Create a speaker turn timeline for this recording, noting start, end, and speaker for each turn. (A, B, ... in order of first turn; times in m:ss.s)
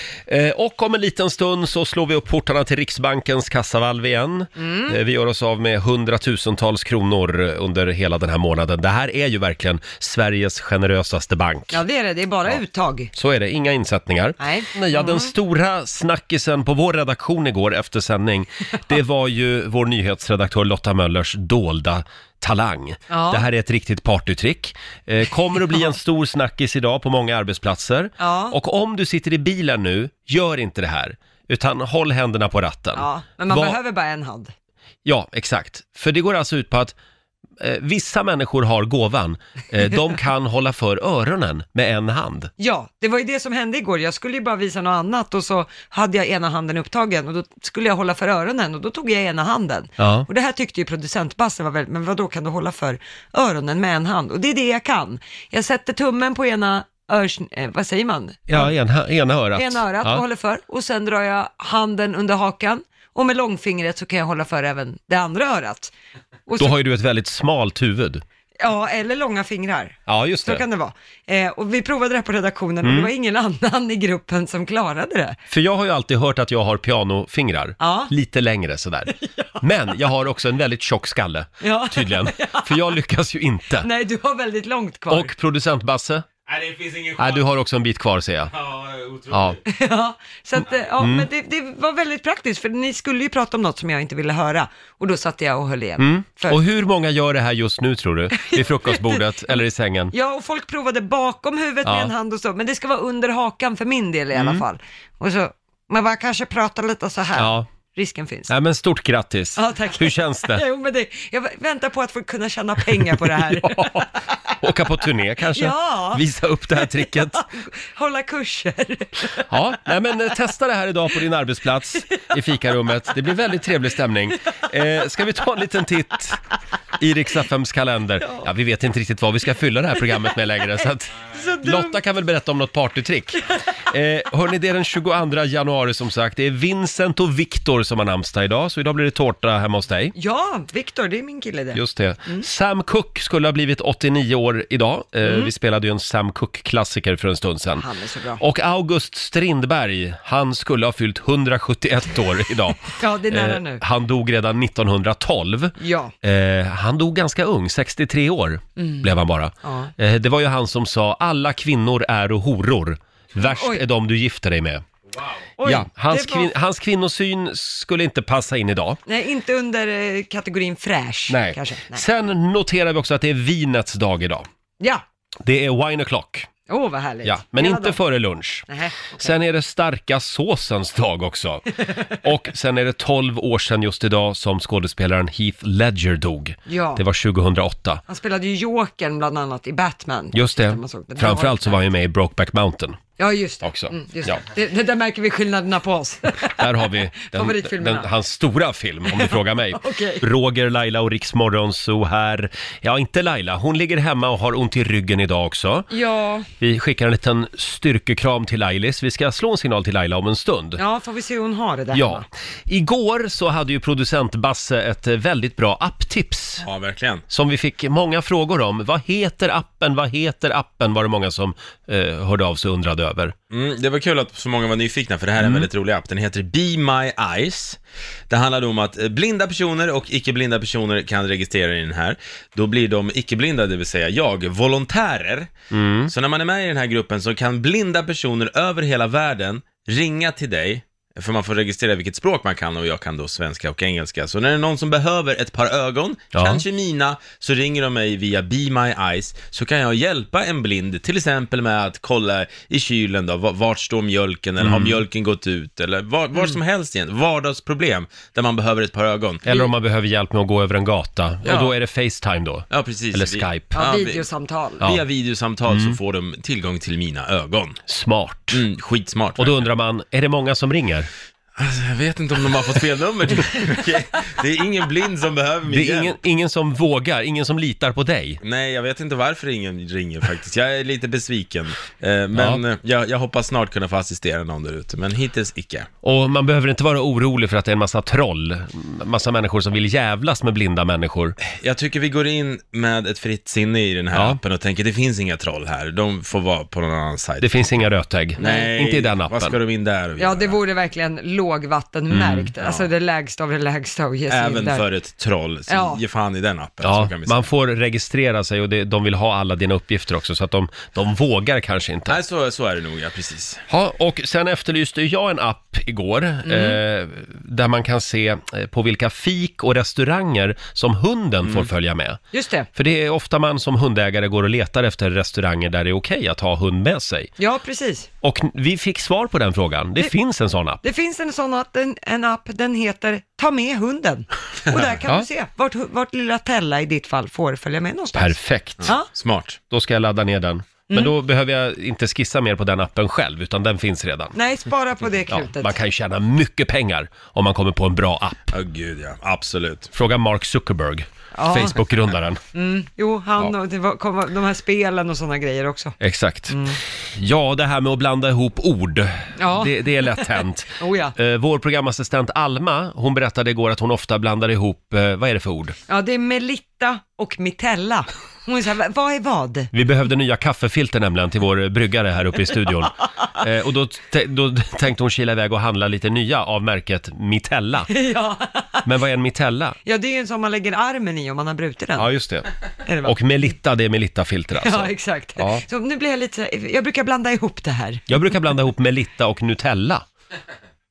0:00.3-0:11.8 A
0:04.6-0:05.0 B
0:11.7-0:13.1 B
0:13.1-0:33.8 A
0:14.4-0:15.3 B
0:23.1-0:23.4 B
0:28.2-0:28.6 B
0:33.0-0:34.5 B
0:35.0-0:37.0 A
0:37.6-0:42.5 A
0:42.6-0:58.8 B
0:50.0-0:50.3 A
0:58.5-1:00.2 A
0:59.6-1:05.9 B
1:06.5-1:06.8 B
1:06.6-1:08.2 A
1:08.6-1:15.4 B
1:10.1-1:10.6 A
1:12.8-1:13.1 A
1:15.5-1:23.9 A
1:17.8-1:18.1 B
1:19.1-1:19.6 B
1:21.6-1:22.9 B
1:23.8-1:25.3 B
1:25.1-1:26.3 A
1:26.5-1:27.5 C
1:27.2-1:28.5 A
1:28.5-1:29.6 C
1:29.3-1:29.6 A
1:29.7-1:36.6 B
1:31.0-1:31.3 A
1:36.0-1:40.1 A
1:38.4-1:39.6 B
1:40.1-1:48.5 B
1:41.8-1:42.1 A
1:44.4-1:44.6 A
1:47.4-1:47.7 A
1:48.5-1:50.6 A
1:49.6-1:54.1 B
1:53.2-1:54.1 A
1:54.6-1:57.4 A
1:55.5-1:56.2 B
1:56.8-1:59.5 B
1:59.5-2:06.4 A
2:07.0-2:20.1 A
2:10.8-2:12.0 B
2:20.2-2:22.5 B
2:21.7-2:27.8 A
2:25.2-2:25.5 B
2:27.8-2:28.4 B
2:28.4-2:44.8 A
2:33.0-2:33.8 B
2:35.8-2:36.1 B
2:38.8-2:39.1 B
2:39.6-2:39.9 B
2:43.4-2:43.8 B
2:45.6-2:46.5 B
2:45.6-2:49.0 A
2:49.1-2:52.0 B
2:51.3-2:54.5 A
2:55.4-2:56.5 A
2:56.7-2:58.0 B
2:57.2-2:58.7 A
2:58.7-2:59.3 B
2:59.2-3:08.0 A
3:06.7-3:07.0 B
3:08.1-3:11.8 B
3:10.3-3:13.0 A
3:13.2-3:18.1 B
3:13.6-3:14.4 A
3:16.5-3:25.9 A
3:19.1-3:20.2 B
3:25.9-3:26.5 B
3:26.6-3:30.8 A
3:30.8-3:32.2 B
3:31.9-3:36.6 A
3:36.6-3:37.2 C
3:37.3-3:43.3 A
3:43.5-3:55.5 C
3:45.4-3:45.7 A
3:55.7-3:56.1 A
3:56.1-4:19.6 C
4:06.3-4:06.6 A
4:14.6-4:15.0 A
4:19.4-4:23.8 A
4:21.4-4:21.8 C
4:22.7-4:24.3 C
4:23.7-4:24.8 B
4:24.8-4:27.8 C
4:25.7-4:26.0 A
4:27.9-4:28.6 A
4:28.5-4:29.6 C
4:29.4-4:31.1 A
4:31.6-4:36.2 C
4:35.7-4:38.4 A
4:38.4-4:45.9 C
4:42.4-4:42.6 A
4:46.0-4:51.4 A
4:51.5-5:00.6 C
4:54.1-4:54.4 A
4:57.4-4:59.6 A
5:00.2-5:04.9 B
5:02.1-5:02.5 A
5:02.6-5:02.9 C
5:04.3-5:07.5 C
5:05.7-5:06.0 B
5:06.8-5:12.2 A
5:12.1-5:13.6 C
5:13.7-5:22.2 A
5:16.5-5:16.8 B
5:22.3-5:22.7 B
5:22.7-5:27.3 A
5:27.4-5:28.1 B
5:28.2-5:30.8 A
5:30.8-5:39.1 B
5:38.1-5:39.0 A
5:38.8-5:39.6 C
5:39.7-5:44.4 A
5:44.4-5:45.7 B
5:45.3-5:48.5 A
5:48.5-5:49.9 C
5:49.9-5:52.4 A
5:51.3-5:51.8 B
5:52.5-5:56.0 B
5:56.0-5:56.6 A
5:56.5-5:56.8 B
5:57.1-6:05.8 A
5:59.4-6:01.2 B
6:05.9-6:09.7 B
6:09.7-6:17.9 A
6:17.9-6:18.8 B
6:18.8-6:19.8 A
6:19.8-6:22.1 B
6:22.0-6:22.5 A
6:22.8-6:23.2 B
6:23.0-6:25.6 A
6:24.6-6:28.0 B
6:28.1-6:30.1 A